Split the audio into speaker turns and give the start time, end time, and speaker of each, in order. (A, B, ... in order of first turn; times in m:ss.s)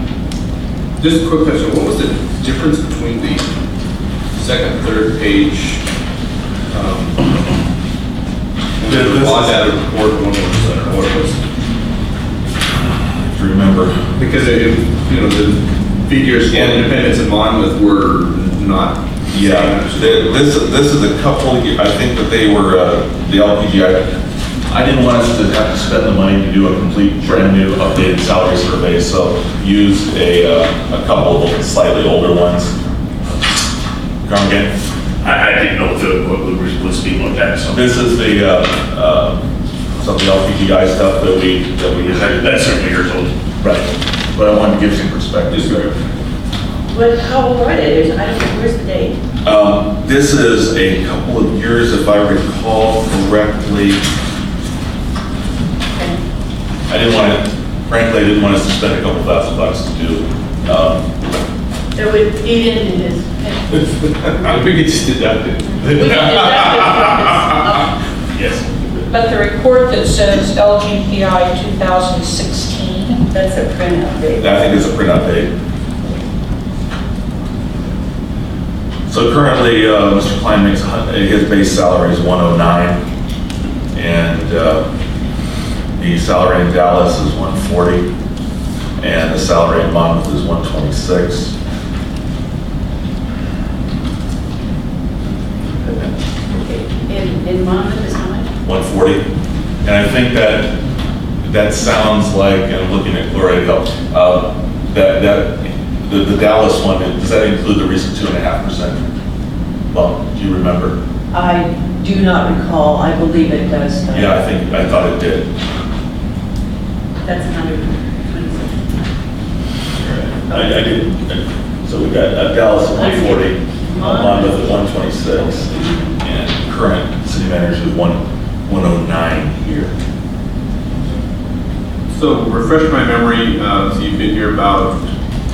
0:01.0-0:03.5 A
0:04.3-0:05.8 A
0:06.7-0:07.3 A
0:08.8-0:11.4 A
0:08.8-0:09.6 B
0:12.9-0:14.0 B
0:14.2-0:20.4 A
0:16.5-0:17.0 B
0:19.3-0:24.2 B
0:24.7-0:32.7 B
0:34.2-0:34.7 B
0:35.2-0:37.8 C
0:37.7-0:42.5 B
0:42.0-0:43.3 C
0:43.6-0:45.8 B
0:45.5-0:45.9 A
0:46.9-0:49.2 D
0:49.4-0:54.0 B
0:56.9-1:01.1 B
1:02.0-1:03.9 D
1:03.8-1:07.0 A
1:05.8-1:07.8 E
1:08.4-1:08.6 C
1:09.1-1:13.3 E
1:13.3-1:14.6 D
1:14.4-1:15.5 B
1:19.1-1:23.0 B
1:23.9-1:24.8 B
1:26.0-1:28.1 B
1:29.0-1:31.5 B
1:35.8-1:38.5 D
1:38.6-1:39.2 B
1:39.8-1:40.8 B
1:41.4-1:49.1 B
1:49.9-1:51.0 B
1:51.3-1:54.2 F
1:54.1-1:55.5 B
1:57.2-1:59.1 D
2:00.0-2:09.9 B
2:00.5-2:00.8 D
2:02.9-2:04.9 D
2:05.4-2:06.2 D
2:12.1-2:15.0 A